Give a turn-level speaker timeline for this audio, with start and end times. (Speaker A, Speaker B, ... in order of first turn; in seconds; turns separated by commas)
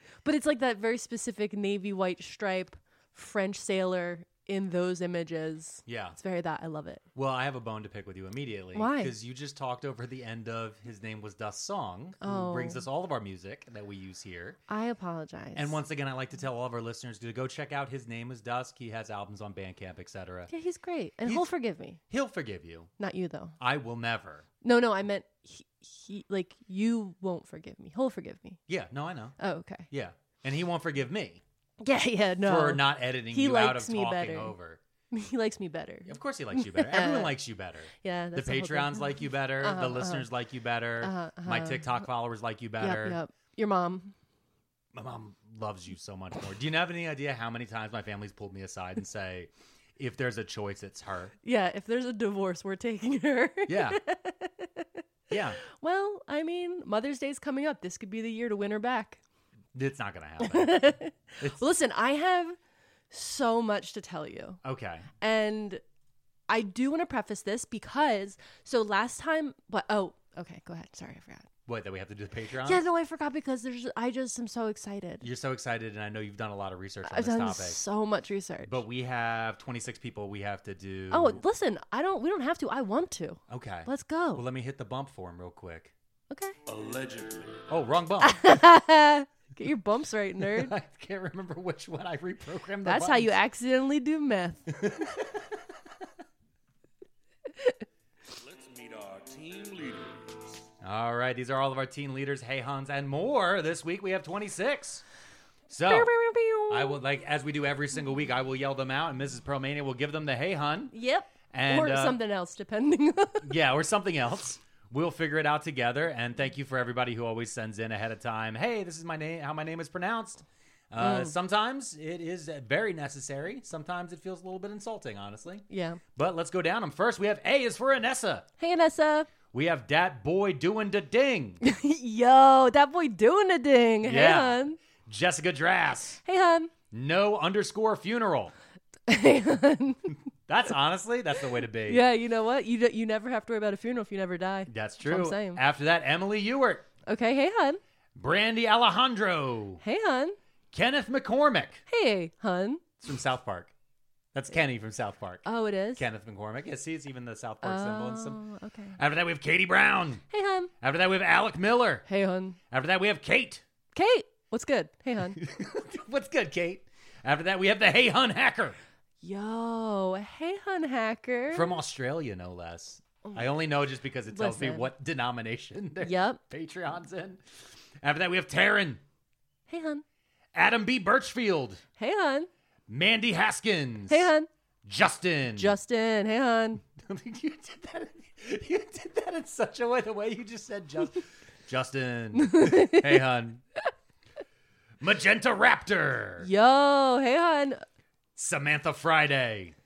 Speaker A: 0.2-7.0, Speaker B: 5.9-6.2, Speaker B: 7.2-14.6, Speaker A: 8.8-9.1, Speaker A: 12.2-12.8, Speaker A: 14.7-15.8, Speaker B: 15.6-20.5, Speaker A: 20.5-22.0, Speaker B: 22.1-22.9, Speaker A: 23.0-23.6, Speaker B: 23.6-24.4, Speaker A: 24.6-28.6, Speaker B: 28.7-29.4, Speaker A: 29.4-29.9, Speaker B: 29.9-31.4, Speaker A: 31.8-34.5, Speaker B: 32.5-34.8, Speaker A: 35.1-37.3, Speaker B: 36.1-43.2, Speaker A: 38.0-40.2, Speaker A: 41.0-41.9, Speaker A: 42.8-44.1, Speaker B: 44.9-51.3, Speaker A: 51.4-54.9, Speaker B: 53.7-54.0, Speaker B: 55.3-55.6, Speaker A: 55.7-59.2, Speaker B: 59.7-61.6, Speaker A: 60.4-62.6, Speaker A: 63.1-64.6, Speaker B: 64.6-65.1, Speaker A: 65.2-65.8, Speaker A: 66.5-71.5, Speaker B: 71.7-72.8, Speaker A: 72.6-75.2, Speaker B: 75.2-77.8, Speaker A: 77.1-78.8, Speaker B: 78.7-81.4, Speaker A: 81.1-84.4, Speaker B: 83.5-85.9, Speaker A: 86.3-86.6, Speaker C: 86.7-87.6, Speaker B: 87.7-88.5, Speaker A: 88.2-90.7, Speaker B: 90.5-93.3, Speaker A: 92.8-94.7, Speaker B: 94.8-95.3, Speaker C: 98.3-100.5, Speaker B: 100.8-105.0, Speaker B: 105.7-106.1, Speaker A: 105.9-107.0, Speaker B: 106.7-110.9, Speaker A: 110.9-113.5, Speaker B: 111.5-112.2, Speaker B: 113.4-128.4, Speaker A: 121.0-121.3, Speaker A: 125.7-126.0, Speaker A: 128.6-129.3, Speaker B: 129.5-131.6, Speaker A: 131.6-134.8, Speaker B: 134.0-136.2, Speaker A: 136.2-136.7, Speaker B: 136.9-138.5, Speaker A: 139.1-140.1, Speaker B: 140.5-142.0, Speaker A: 141.9-145.6, Speaker B: 144.7-146.9, Speaker A: 147.1-147.8, Speaker B: 148.2-149.8, Speaker A: 149.8-150.4, Speaker B: 150.7-151.8, Speaker A: 151.9-152.8, Speaker B: 153.0-153.7, Speaker B: 154.3-158.4, Speaker A: 155.4-156.0, Speaker A: 157.6-159.0, Speaker B: 159.0-160.2, Speaker A: 160.3-160.7, Speaker B: 160.8-162.1, Speaker A: 162.1-162.6, Speaker B: 162.7-163.6, Speaker A: 163.9-165.4, Speaker B: 165.4-168.8, Speaker A: 169.2-171.7, Speaker B: 171.5-177.4, Speaker A: 174.3-174.9, Speaker A: 176.0-176.4, Speaker B: 178.0-179.0, Speaker A: 179.7-180.0, Speaker B: 180.6-181.8, Speaker A: 182.0-182.5, Speaker B: 182.9-184.3, Speaker A: 184.1-184.5, Speaker B: 184.8-185.8, Speaker A: 185.6-186.8, Speaker B: 186.9-193.6, Speaker A: 192.4-193.1, Speaker B: 195.0-196.5, Speaker A: 196.4-197.8, Speaker B: 198.4-199.8